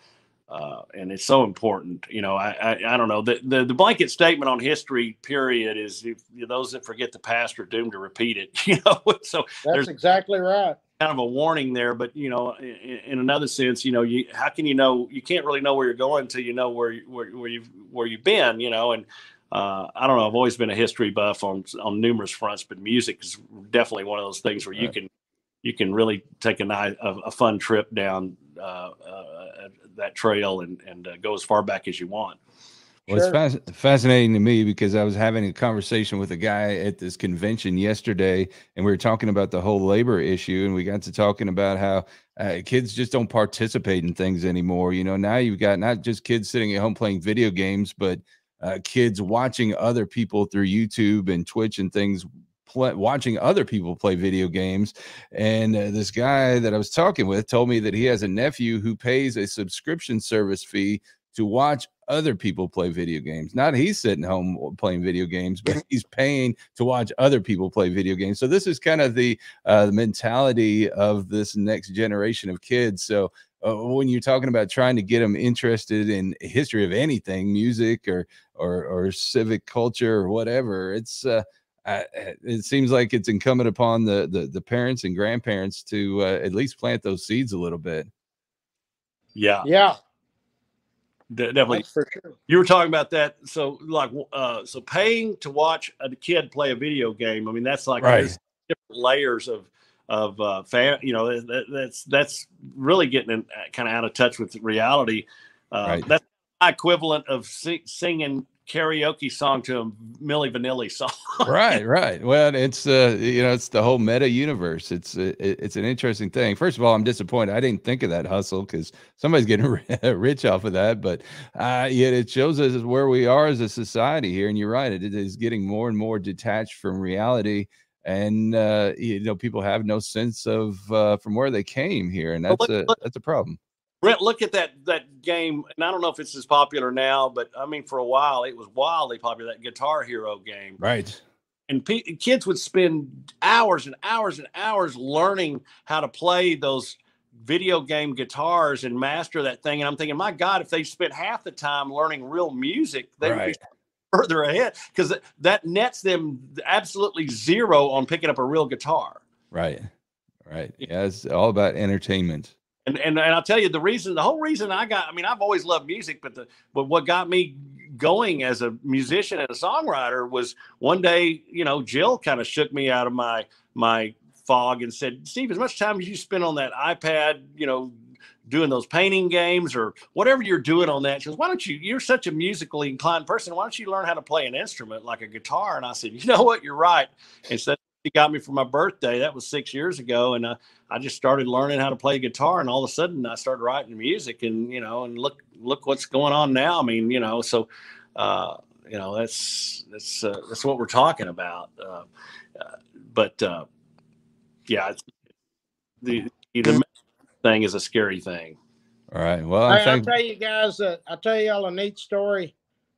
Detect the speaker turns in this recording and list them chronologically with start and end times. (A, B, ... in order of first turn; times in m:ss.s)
0:00.5-0:09.9 A
0:09.6-0:10.8 B
0:11.0-0:25.1 A
0:25.6-0:32.4 A
0:33.1-1:28.1 C
0:33.1-0:33.4 B
1:29.3-1:29.7 A
1:29.6-1:30.0 B
1:31.3-1:31.8 A
1:31.7-1:32.3 B
1:32.5-1:51.8 A
1:38.0-1:38.3 C
1:51.4-2:13.6 C
2:12.5-2:13.0 A
2:14.0-2:20.8 A
2:20.8-2:21.2 C
2:21.7-2:33.6 A
2:33.2-2:33.5 C
2:34.1-2:39.2 A
2:39.5-2:39.9 C
2:40.4-2:42.5 C
2:42.8-2:57.9 A
2:58.4-3:22.0 A
3:22.6-3:23.6 A
3:24.7-3:25.0 A
3:26.0-3:26.8 A
3:27.4-3:28.6 A
3:29.1-3:30.1 C
3:29.7-3:32.5 B